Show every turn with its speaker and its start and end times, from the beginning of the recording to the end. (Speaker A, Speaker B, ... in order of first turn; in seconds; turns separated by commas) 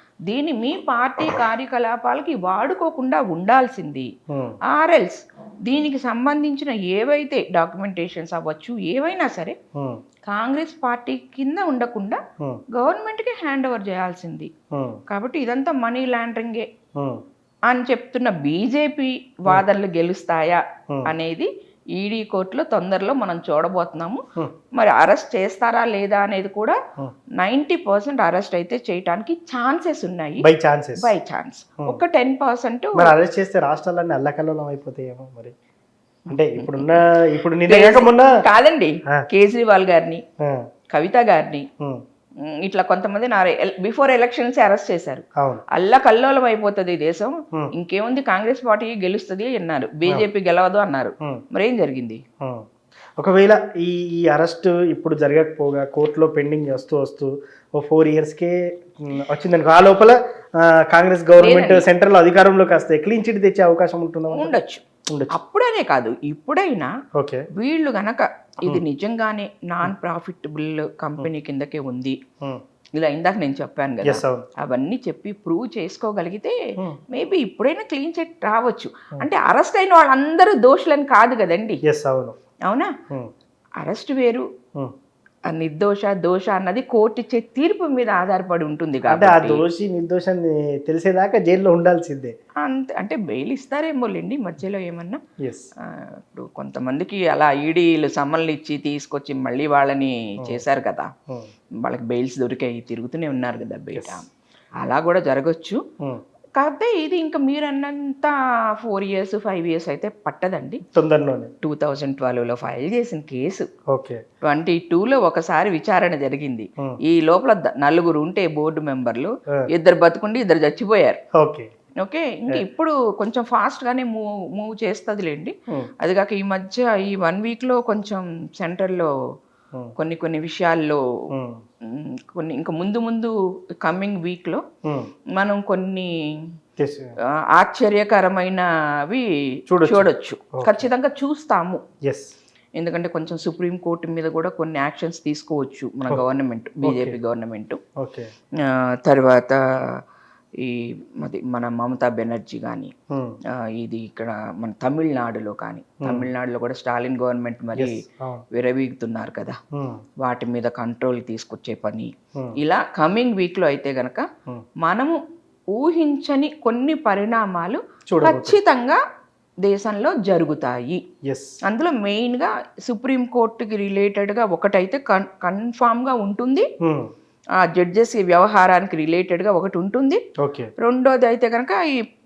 Speaker A: 0.3-4.1, Speaker B: 4.3-4.6, Speaker A: 4.7-9.6, Speaker B: 9.7-10.0, Speaker A: 10.3-12.2, Speaker A: 12.7-14.5, Speaker B: 14.7-15.0, Speaker A: 15.1-16.7, Speaker B: 16.9-17.2, Speaker A: 17.7-24.2, Speaker A: 24.7-26.8, Speaker A: 27.4-33.1, Speaker B: 30.4-31.1, Speaker B: 33.0-35.5, Speaker B: 36.3-38.3, Speaker A: 36.3-37.0, Speaker A: 37.6-40.2, Speaker B: 40.4-40.6, Speaker A: 40.9-41.7, Speaker A: 42.4-52.2, Speaker B: 52.4-52.6, Speaker B: 53.2-64.5, Speaker A: 61.4-61.9, Speaker A: 64.3-66.9, Speaker B: 65.1-65.3, Speaker B: 67.2-67.4, Speaker A: 67.5-72.2, Speaker A: 73.0-76.6, Speaker B: 74.0-74.5, Speaker A: 77.1-81.8, Speaker B: 81.9-82.3, Speaker A: 82.7-82.9, Speaker A: 83.8-84.5, Speaker A: 85.5-89.6, Speaker B: 89.1-92.3, Speaker A: 92.6-95.2, Speaker B: 95.4-95.7, Speaker A: 95.9-101.1, Speaker A: 101.8-104.3, Speaker B: 103.9-104.2, Speaker A: 104.8-105.8, Speaker A: 106.6-110.8, Speaker B: 110.9-111.5, Speaker A: 111.6-113.7, Speaker B: 113.9-114.2, Speaker A: 114.4-121.2, Speaker B: 121.3-121.7, Speaker A: 122.0-129.1, Speaker A: 130.0-131.0, Speaker B: 131.3-131.6, Speaker A: 131.9-134.6, Speaker A: 135.3-136.1, Speaker B: 136.8-137.1, Speaker A: 137.5-139.3, Speaker B: 139.7-140.8, Speaker A: 139.8-141.8, Speaker B: 142.0-142.3, Speaker A: 142.8-147.8, Speaker B: 146.8-147.2, Speaker B: 148.0-148.3, Speaker A: 148.6-150.0, Speaker A: 150.6-152.9, Speaker B: 153.1-153.4, Speaker A: 153.6-159.6, Speaker B: 156.0-156.3, Speaker B: 157.8-158.4, Speaker B: 159.7-160.0, Speaker A: 160.2-164.3, Speaker A: 164.8-165.2, Speaker A: 165.7-169.0, Speaker B: 168.1-168.6, Speaker A: 169.6-171.0, Speaker B: 171.3-171.6, Speaker A: 171.7-176.7, Speaker B: 176.8-177.1, Speaker A: 177.6-180.2, Speaker B: 180.4-180.7, Speaker A: 180.8-182.1